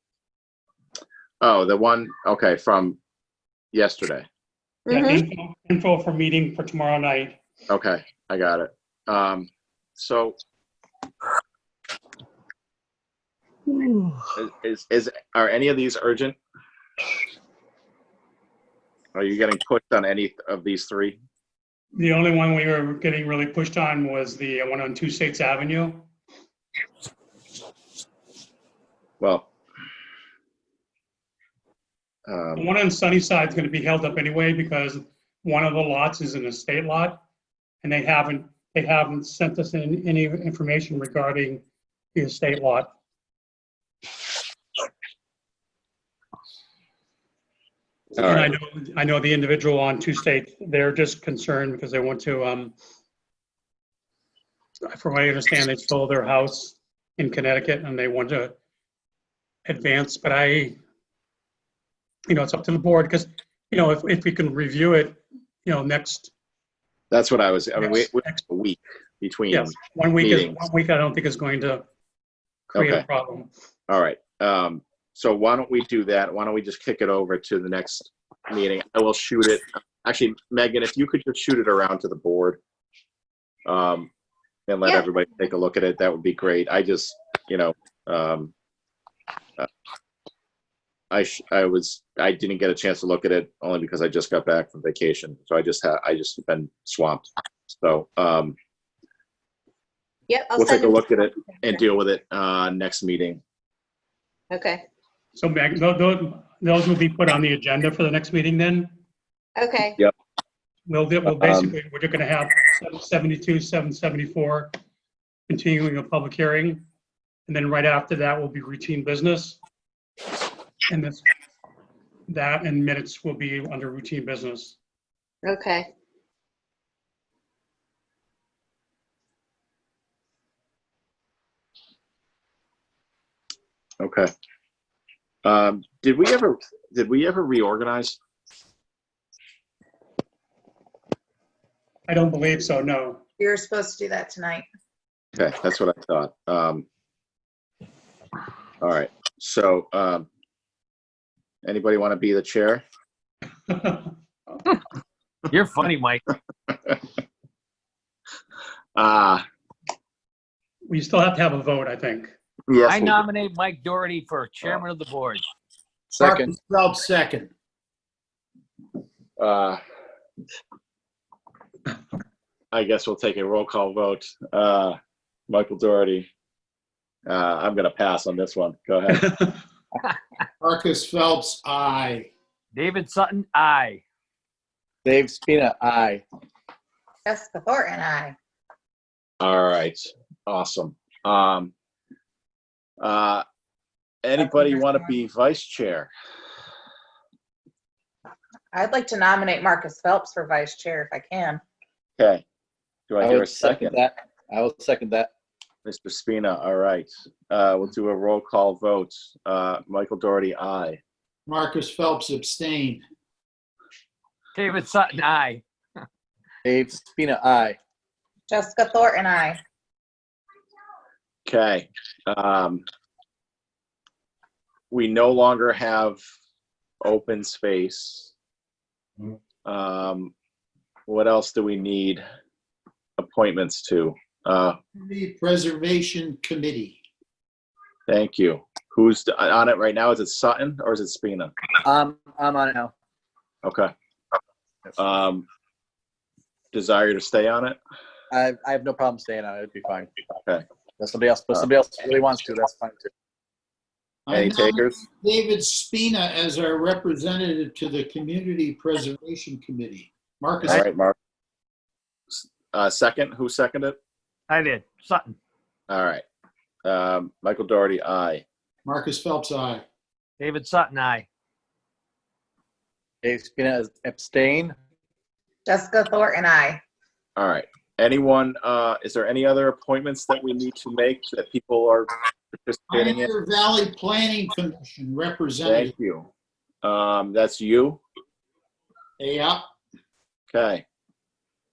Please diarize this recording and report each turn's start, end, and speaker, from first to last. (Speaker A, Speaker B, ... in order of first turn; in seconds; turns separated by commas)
Speaker A: 1.4-3.0, Speaker A: 3.7-4.3, Speaker B: 4.9-5.3, Speaker C: 4.9-7.4, Speaker A: 7.7-10.4, Speaker A: 14.3-16.4, Speaker A: 19.1-21.2, Speaker C: 21.9-26.1, Speaker A: 29.2-29.5, Speaker A: 32.3-32.7, Speaker C: 32.6-37.2, Speaker C: 37.8-42.9, Speaker A: 48.2-48.6, Speaker C: 48.2-52.8, Speaker C: 54.9-58.6, Speaker C: 59.7-60.8, Speaker C: 62.3-66.3, Speaker A: 67.1-70.6, Speaker C: 67.8-68.4, Speaker C: 69.5-71.8, Speaker C: 72.7-73.5, Speaker A: 72.7-73.1, Speaker A: 73.9-82.6, Speaker A: 83.7-84.1, Speaker A: 84.7-88.5, Speaker A: 91.1-98.6, Speaker B: 100.3-101.7, Speaker A: 100.6-103.4, Speaker B: 104.5-104.8, Speaker C: 105.3-109.0, Speaker B: 109.6-110.0, Speaker C: 110.9-114.8, Speaker A: 111.3-111.8, Speaker C: 115.5-116.9, Speaker C: 117.5-119.6, Speaker C: 120.9-121.3, Speaker C: 122.3-124.8, Speaker B: 125.4-125.9, Speaker A: 134.0-134.3, Speaker A: 135.4-138.2, Speaker C: 142.1-143.2, Speaker D: 143.4-144.7, Speaker A: 145.4-146.9, Speaker A: 148.8-150.3, Speaker A: 151.6-152.8, Speaker C: 153.7-154.1, Speaker E: 155.5-156.2, Speaker A: 159.0-159.4, Speaker C: 160.9-162.3, Speaker A: 162.7-163.2, Speaker E: 162.9-165.4, Speaker F: 166.1-166.6, Speaker G: 166.2-167.5, Speaker A: 169.4-169.8, Speaker A: 172.7-175.0, Speaker A: 175.5-176.3, Speaker A: 177.3-179.3, Speaker G: 180.6-182.3, Speaker E: 182.7-184.0, Speaker F: 185.1-186.2, Speaker D: 187.3-188.3, Speaker A: 189.4-191.7, Speaker A: 193.0-193.4, Speaker A: 194.2-196.1, Speaker D: 194.4-195.2, Speaker D: 198.7-201.6, Speaker A: 202.2-202.4, Speaker A: 203.1-204.0, Speaker F: 203.2-205.3, Speaker A: 205.8-211.0, Speaker G: 211.5-213.0, Speaker E: 214.6-215.6, Speaker F: 216.7-217.8, Speaker D: 218.5-219.6, Speaker A: 221.5-222.8, Speaker A: 224.9-226.2, Speaker A: 227.0-228.3, Speaker A: 229.7-230.3, Speaker A: 231.1-232.2, Speaker A: 233.2-234.8, Speaker G: 235.0-237.0, Speaker A: 238.1-241.5, Speaker F: 241.8-242.9, Speaker A: 243.6-243.9, Speaker A: 245.0-245.5, Speaker A: 246.7-247.8, Speaker F: 248.3-250.1, Speaker F: 251.0-253.1, Speaker G: 254.3-260.8, Speaker A: 254.3-255.0, Speaker A: 260.6-261.1, Speaker A: 262.3-264.0, Speaker E: 264.5-265.4, Speaker A: 265.9-266.2, Speaker A: 266.9-268.4, Speaker G: 268.9-269.9, Speaker E: 270.4-271.3, Speaker F: 273.2-274.8, Speaker D: 275.7-276.8, Speaker A: 277.4-283.3, Speaker G: 282.9-285.9, Speaker A: 285.7-286.3, Speaker A: 286.8-288.0, Speaker G: 289.2-289.7, Speaker A: 290.5-290.9